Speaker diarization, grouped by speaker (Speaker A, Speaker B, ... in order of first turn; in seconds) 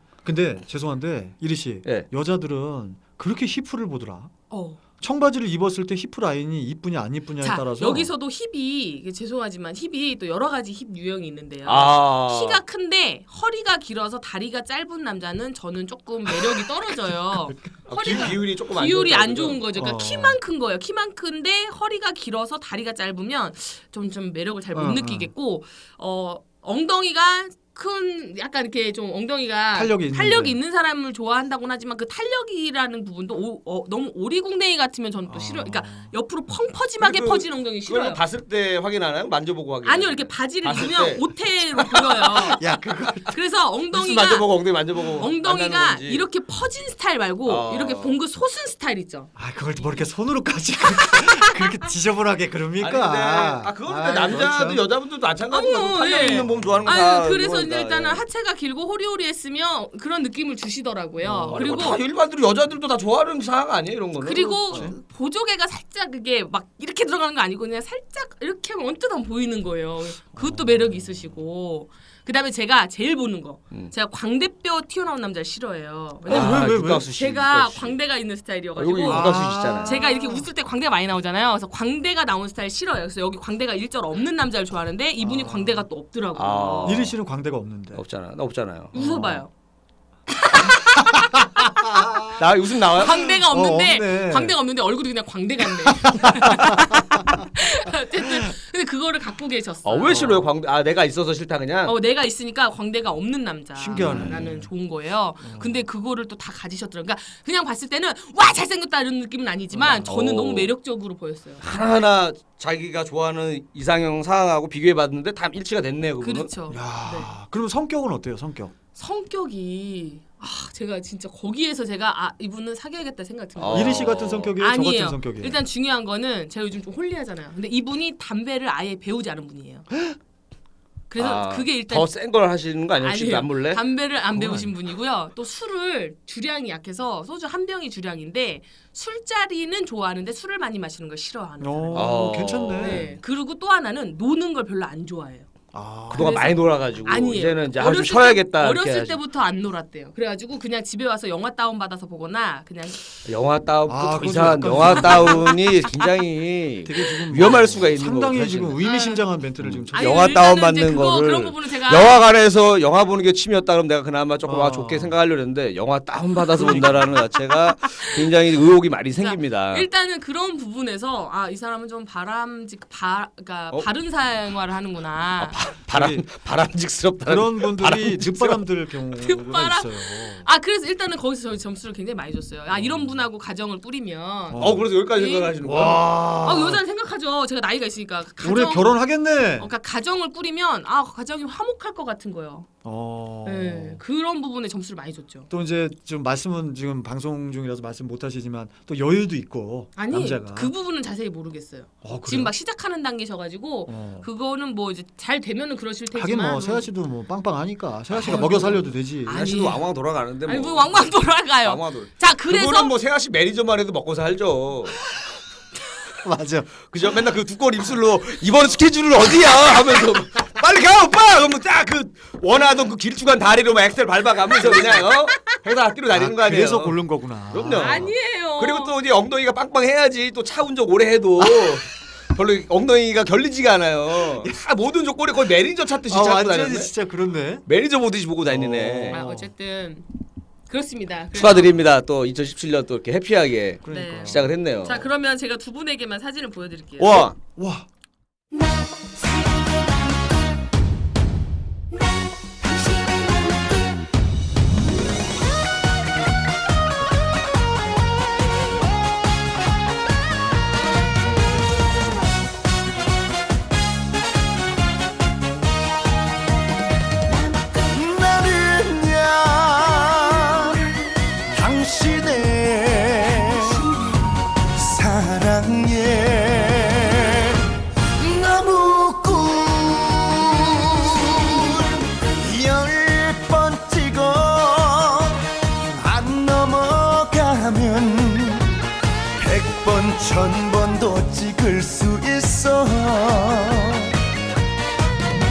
Speaker A: 0.2-4.3, 5.0-8.1, 17.3-18.3, 19.8-20.4, 24.7-25.3, 29.7-30.6, 35.3-36.1, 42.3-43.3, 49.4-54.8, 56.2-56.9, 61.2-61.9, 70.3-71.2, 76.3-77.1, 79.0-80.5, 85.2-85.9, 86.8-88.0, 89.0-89.4, 91.2-94.6, 95.9-97.5, 100.0-100.5, 103.8-104.7, 105.4-105.8, 109.7-110.1, 116.7-118.7, 123.7-125.6, 134.3-134.7, 141.6-143.1, 145.7-146.4, 153.9-155.7, 156.8-160.4, 164.4-165.2, 166.5-167.1, 175.9-176.2, 177.3-180.4, 184.5-184.9, 185.6-186.8, 188.4-189.7, 192.8-194.0, 195.5-200.7, 202.0-202.5, 203.9-204.3, 206.1-209.5, 216.2-216.8, 224.7-225.1, 226.1-228.1, 236.1-237.6, 238.5-239.5, 243.8-244.5, 247.6-247.9
Speaker B: 4.5-4.8, 7.4-38.2, 39.8-42.6, 43.3-44.5, 45.2-49.3, 51.1-51.4, 55.5-62.0, 64.2-87.1, 88.9-89.5, 90.4-91.5, 93.0-100.4, 101.9-111.7, 116.2-117.3, 119.0-129.9, 131.1-132.1, 133.0-145.5, 146.1-153.0, 158.8-159.3, 159.9-162.2, 169.2-175.6, 179.1-189.0, 189.6-192.7, 193.4-195.5, 200.0-206.9, 208.2-209.9, 210.4-212.9, 227.7-228.9, 239.1-240.1, 240.7-241.8, 243.9-247.3
Speaker C: 11.7-12.6, 17.9-19.6, 37.0-42.3, 43.9-46.2, 47.5-48.2, 52.8-58.2, 61.5-64.9, 76.3-78.0, 78.8-80.0, 86.3-87.2, 87.9-89.0, 92.4-93.4, 99.8-102.0, 104.0-104.4, 109.7-110.7, 111.6-116.5, 123.6-124.6, 131.2-133.8, 141.9-143.2, 146.1-149.2, 153.3-158.8, 159.6-169.9, 175.4-178.6, 184.6-186.1, 209.3-215.0, 216.9-236.9, 237.7-239.2, 241.3-245.1, 247.0-247.4
Speaker D: 267.8-270.8, 271.5-273.9, 274.8-288.8, 289.4-294.2